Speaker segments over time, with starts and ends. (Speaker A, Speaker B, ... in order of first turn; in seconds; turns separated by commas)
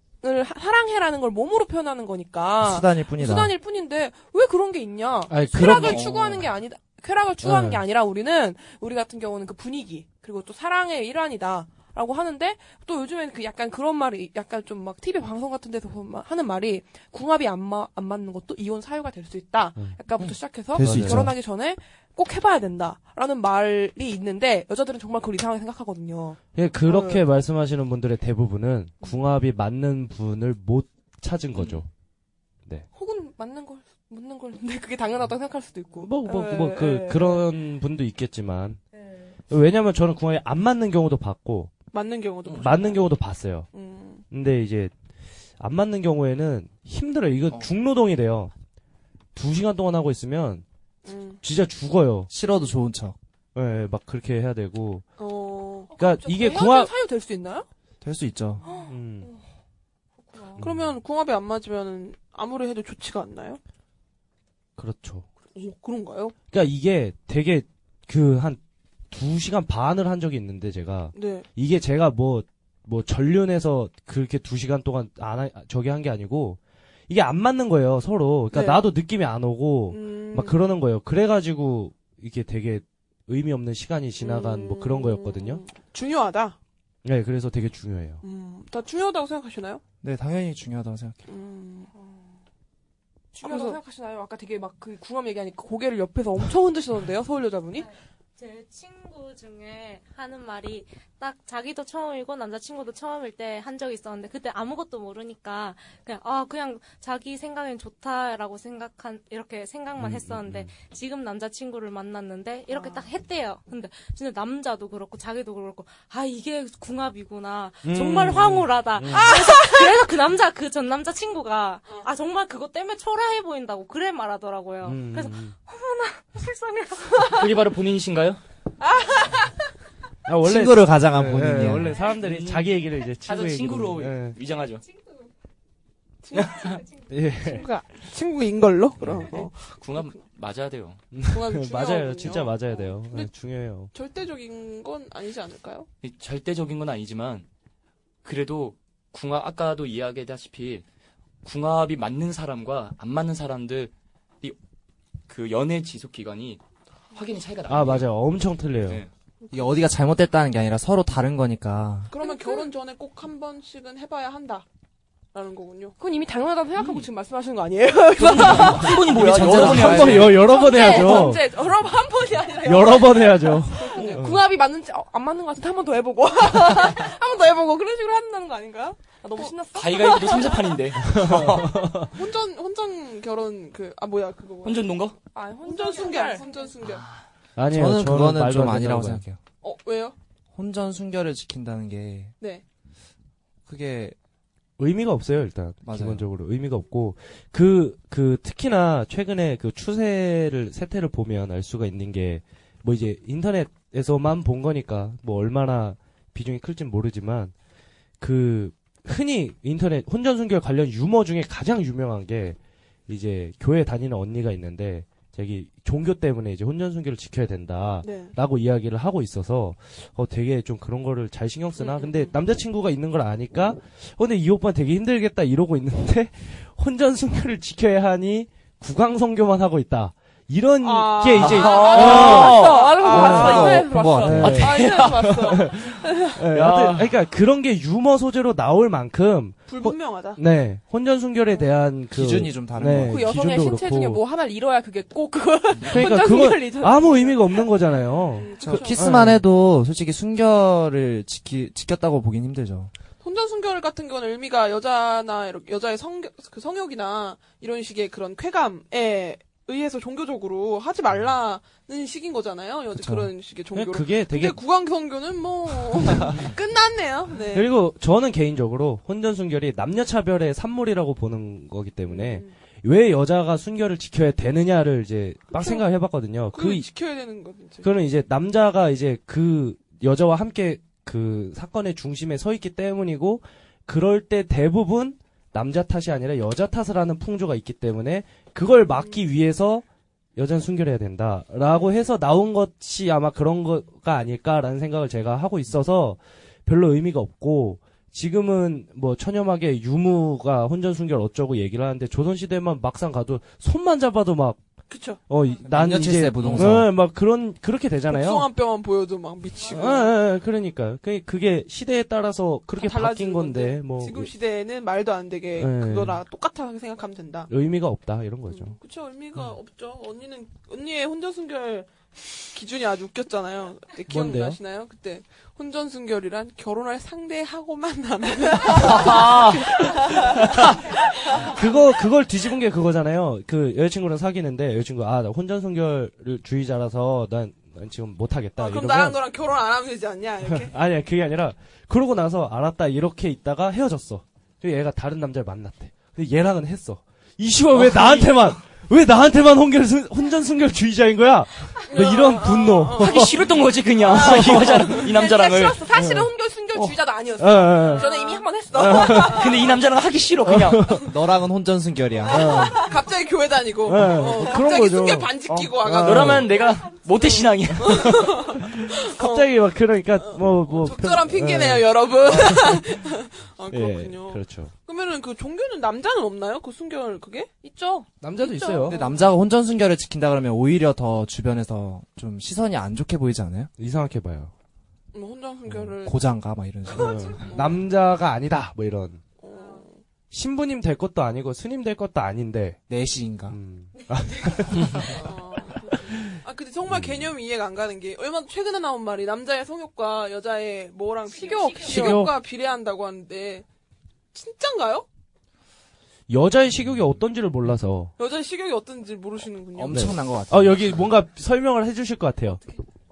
Speaker A: 0.2-27.2, Speaker B: 2.6-3.5, Speaker C: 5.3-6.1, Speaker D: 5.5-6.5, Speaker C: 7.4-7.8, Speaker B: 20.7-21.4, Speaker C: 20.8-21.3, Speaker C: 26.5-31.9, Speaker D: 31.5-31.8, Speaker A: 32.9-37.4, Speaker C: 36.0-38.8, Speaker C: 39.5-41.7, Speaker E: 41.9-43.1, Speaker C: 42.6-43.7, Speaker E: 43.7-44.2, Speaker C: 44.3-44.9, Speaker C: 45.6-48.5, Speaker C: 49.3-50.6, Speaker E: 51.0-51.4, Speaker C: 51.4-52.3, Speaker B: 52.3-53.1, Speaker C: 53.5-55.0, Speaker E: 55.2-55.9, Speaker A: 55.9-57.7, Speaker C: 56.0-56.9, Speaker B: 58.0-58.6, Speaker A: 58.6-59.4, Speaker C: 58.9-59.3, Speaker A: 60.2-60.6, Speaker C: 60.6-61.0, Speaker E: 60.6-63.6, Speaker C: 64.8-65.3, Speaker E: 65.5-66.3, Speaker C: 66.5-68.6, Speaker C: 69.1-85.6, Speaker E: 71.1-71.5, Speaker E: 78.5-78.8, Speaker E: 79.9-80.7, Speaker E: 84.2-86.6, Speaker C: 87.0-88.2, Speaker E: 88.2-89.8, Speaker B: 90.0-91.2, Speaker E: 91.3-91.9, Speaker A: 91.9-92.3, Speaker A: 93.3-97.9, Speaker E: 93.4-93.8, Speaker F: 97.8-127.3, Speaker C: 110.0-110.7, Speaker C: 117.8-119.5, Speaker C: 124.8-125.5, Speaker D: 127.2-128.4, Speaker C: 130.2-134.4, Speaker B: 130.4-132.0, Speaker D: 132.1-134.8, Speaker E: 136.3-136.7, Speaker C: 137.1-137.7, Speaker E: 137.4-140.2, Speaker C: 139.0-139.4, Speaker D: 139.8-141.0, Speaker C: 141.1-143.9, Speaker E: 141.3-143.3, Speaker E: 143.9-145.9, Speaker D: 146.0-147.4, Speaker D: 148.2-150.8, Speaker D: 151.4-154.6, Speaker D: 155.3-156.6, Speaker D: 157.1-158.1, Speaker C: 157.7-159.0, Speaker B: 159.5-162.1, Speaker E: 162.1-164.7, Speaker A: 162.2-162.7, Speaker E: 165.3-165.9, Speaker A: 166.0-169.2, Speaker D: 166.8-167.1, Speaker D: 168.2-170.5, Speaker C: 168.6-171.6, Speaker B: 169.1-170.6, Speaker A: 170.3-180.8, Speaker C: 172.6-174.4, Speaker D: 179.7-182.0, Speaker C: 181.0-182.1, Speaker E: 182.1-184.9, Speaker D: 184.6-185.2, Speaker A: 185.3-186.7, Speaker E: 185.6-187.0, Speaker D: 186.8-187.2, Speaker C: 187.6-189.2, Speaker B: 187.7-189.4, Speaker E: 189.6-190.1, Speaker B: 190.5-192.3, Speaker B: 193.7-194.1, Speaker C: 194.8-207.5, Speaker B: 195.8-196.2, Speaker C: 208.2-244.2, Speaker E: 218.0-218.3, Speaker E: 221.8-222.3, Speaker E: 230.8-233.6, Speaker D: 231.3-233.0, Speaker A: 231.6-236.4, Speaker B: 233.0-234.8, Speaker D: 234.4-235.6, Speaker D: 236.5-237.1, Speaker E: 239.7-240.4, Speaker B: 242.1-243.4, Speaker A: 242.9-247.7, Speaker C: 245.8-249.4, Speaker E: 248.3-249.0, Speaker B: 248.6-252.9, Speaker E: 253.2-267.7, Speaker B: 263.0-263.3, Speaker C: 263.7-264.6, Speaker C: 266.1-266.4, Speaker C: 267.5-276.9, Speaker E: 272.1-272.5, Speaker E: 275.5-275.8, Speaker E: 276.5-277.9, Speaker C: 277.8-289.8, Speaker E: 288.9-289.2, Speaker C: 290.4-304.6, Speaker E: 304.9-305.2, Speaker C: 305.2-308.5, Speaker B: 305.6-307.0, Speaker E: 308.1-310.1, Speaker C: 309.6-314.3, Speaker E: 312.8-317.5, Speaker C: 315.6-316.2, Speaker C: 317.5-318.8, Speaker E: 318.5-330.7, Speaker C: 324.1-324.6, Speaker D: 328.7-329.8, Speaker C: 330.2-339.2, Speaker E: 338.6-340.7, Speaker C: 340.5-355.1, Speaker D: 347.7-348.6, Speaker E: 351.9-353.3, Speaker D: 353.0-355.9, Speaker A: 354.3-359.7, Speaker E: 354.4-354.6, Speaker C: 355.9-358.1, Speaker E: 357.9-358.4, Speaker C: 358.7-359.4, Speaker D: 359.2-360.9, Speaker C: 360.4-361.1, Speaker B: 361.0-362.7, Speaker C: 362.3-362.8, Speaker E: 362.8-366.4, Speaker C: 363.9-366.6, Speaker D: 366.0-368.3, Speaker E: 367.8-369.6, Speaker C: 368.1-373.1, Speaker E: 370.1-377.5, Speaker C: 373.7-374.7, Speaker A: 377.6-379.2, Speaker C: 378.2-379.0, Speaker B: 378.8-383.7, Speaker C: 383.8-384.5, Speaker E: 385.1-386.2, Speaker B: 385.7-387.4, Speaker C: 386.9-389.2, Speaker E: 387.3-387.8, Speaker E: 389.4-390.0, Speaker C: 390.3-392.8, Speaker B: 392.9-393.6, Speaker C: 393.5-395.2, Speaker E: 395.1-403.6, Speaker F: 401.3-402.0, Speaker A: 401.3-402.3, Speaker C: 401.8-402.4, Speaker E: 404.3-405.1, Speaker C: 406.3-408.1, Speaker E: 408.2-410.1, Speaker B: 409.8-411.1, Speaker C: 409.9-412.6